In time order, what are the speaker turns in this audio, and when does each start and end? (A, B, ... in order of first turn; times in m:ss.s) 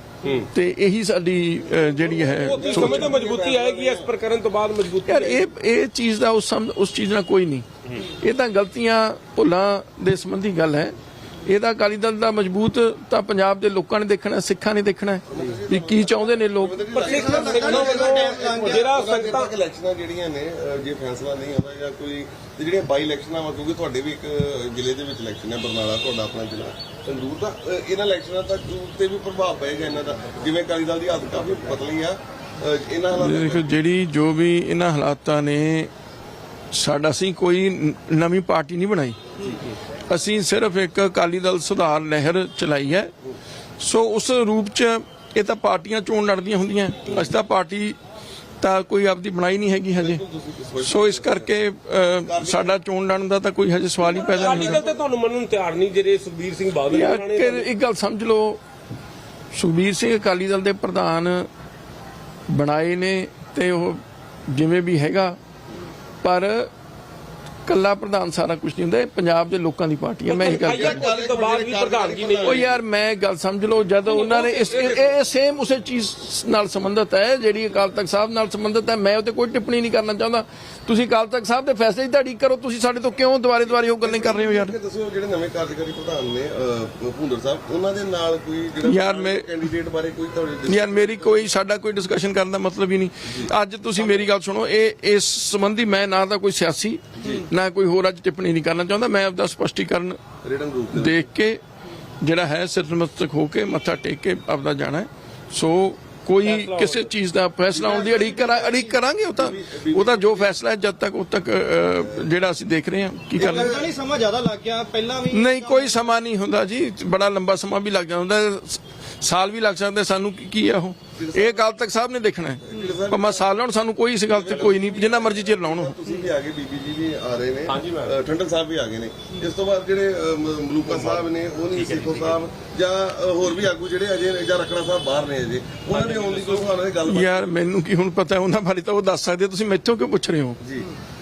0:00.2-0:00.5 A
0:00.5-0:03.1 B
0:02.3-0:05.4 A
0:02.5-0:04.1 C
0:05.0-0:07.7 B
0:08.2-0:16.8 B
0:15.3-0:33.7 C
0:16.9-0:19.5 A
0:17.0-0:18.8 D
0:33.1-0:35.9 B
0:36.7-0:39.2 B
0:40.1-0:43.1 B
0:43.8-0:48.0 B
0:48.6-0:50.2 B
0:50.0-0:51.5 C
0:50.8-0:54.8 B
0:52.2-0:52.8 C
0:54.0-0:55.0 C
0:54.1-0:57.7 A
0:56.9-0:58.6 B
0:59.5-1:01.5 B
1:02.5-1:05.4 B
1:06.2-1:06.7 B
1:07.6-1:11.0 B
1:10.2-1:12.7 A
1:10.6-1:12.7 C
1:12.4-1:24.8 B
1:14.0-1:15.2 A
1:23.6-1:31.5 C
1:28.8-1:29.5 B
1:30.7-1:40.2 B
1:33.3-1:34.3 C
1:40.4-1:41.2 C
1:40.9-1:41.6 B
1:42.2-1:53.8 B
1:46.4-1:47.1 A
1:47.7-1:48.4 C
1:47.8-1:48.9 D
1:49.4-1:50.6 C
1:53.4-1:56.0 D
1:53.4-1:53.8 C
1:55.3-2:05.9 B
2:01.2-2:01.6 C
2:02.6-2:03.5 C
2:04.3-2:17.5 C
2:07.7-2:08.1 A
2:11.7-2:12.4 A
2:15.9-2:16.7 A
2:17.1-2:20.6 B
2:20.6-2:20.9 C